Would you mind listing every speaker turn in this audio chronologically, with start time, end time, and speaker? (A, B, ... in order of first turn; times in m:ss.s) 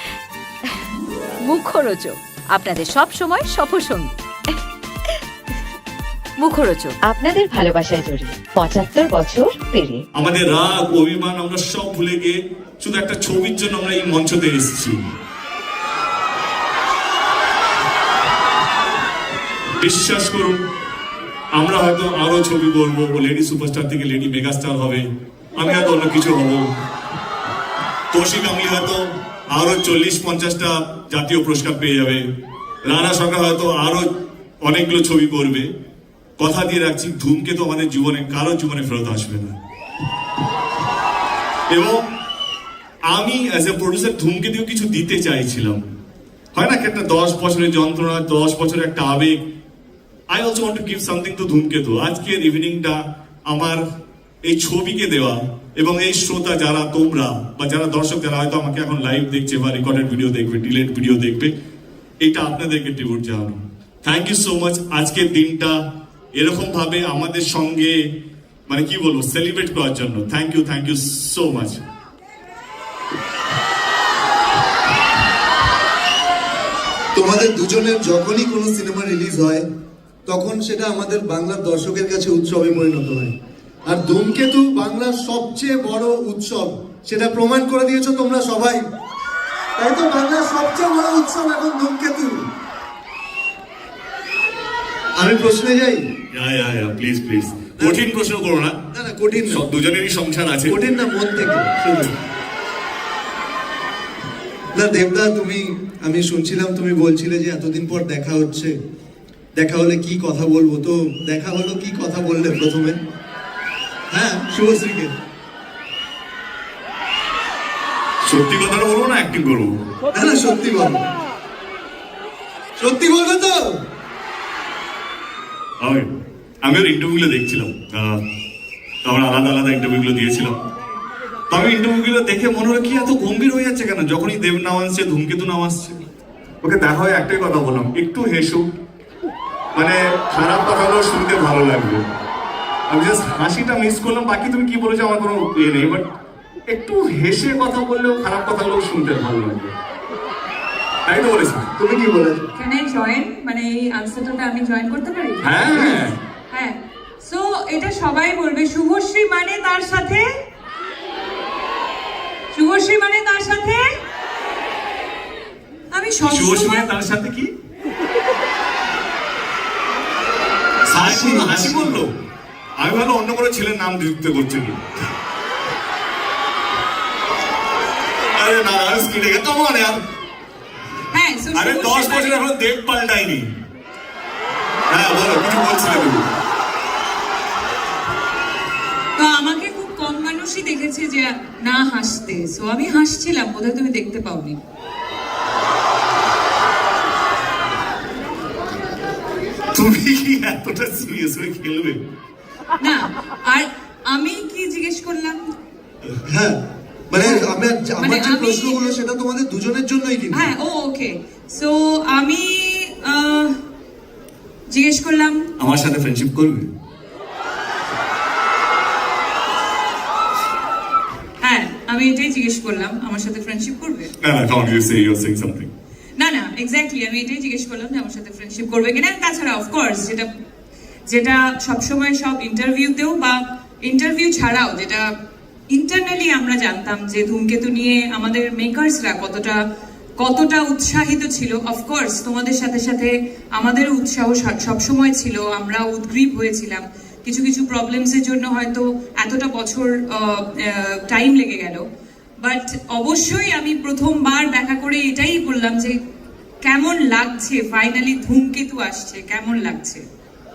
0:01.5-0:04.1 A
0:06.4-0:07.0 A
0:07.0-0:10.0 B
0:10.2-0:15.0 C
0:19.8-0:20.6 C
0:21.5-0:26.7 C
0:28.1-0:32.2 C
0:32.8-0:34.1 C
0:34.6-0:35.7 C
0:36.4-0:39.6 C
0:41.7-0:42.0 C
0:43.1-0:45.8 C
0:46.5-0:49.4 C
0:50.3-0:53.8 C
0:54.4-1:01.5 C
1:02.2-1:05.8 C
1:06.4-1:08.0 C
1:08.7-1:11.8 C
1:17.1-1:19.6 D
1:20.2-1:23.3 D
1:23.8-1:28.8 D
1:29.8-1:32.4 D
1:35.2-1:36.0 D
1:36.3-1:38.8 C
1:37.8-1:38.1 D
1:38.9-1:39.6 D
1:39.5-1:40.7 C
1:40.7-1:42.2 D
1:44.7-1:48.7 D
1:49.6-1:53.0 D
1:54.1-1:55.1 D
1:58.2-1:59.7 C
2:00.1-2:01.0 D
2:02.8-2:03.8 D
2:05.8-2:06.1 C
2:06.6-2:08.2 C
2:09.0-2:10.5 C
2:11.5-2:16.0 C
2:16.6-2:18.6 C
2:19.8-2:22.0 C
2:22.9-2:26.0 C
2:26.7-2:29.7 C
2:31.1-2:31.7 C
2:31.8-2:32.4 D
2:32.6-2:36.0 E
2:35.4-2:36.2 C
2:35.7-2:36.0 D
2:36.5-2:40.2 E
2:42.5-2:43.8 E
2:45.9-2:46.9 E
2:46.3-2:47.5 C
2:50.9-2:52.1 C
2:51.0-2:52.0 D
2:52.8-2:54.8 C
2:58.3-3:00.0 C
3:01.1-3:02.4 E
3:01.5-3:03.5 C
3:04.9-3:06.2 C
3:09.2-3:14.6 E
3:19.7-3:22.0 C
3:22.8-3:25.4 E
3:26.3-3:26.6 D
3:27.1-3:30.5 D
3:28.0-3:28.9 E
3:30.3-3:33.5 E
3:34.7-3:35.4 E
3:35.6-3:36.7 C
3:41.4-3:44.1 E
3:44.2-3:45.7 C
3:46.2-3:50.3 E
3:51.1-3:55.1 E
3:55.7-3:59.6 E
4:00.2-4:11.8 E
4:12.4-4:16.0 E
4:16.6-4:20.0 E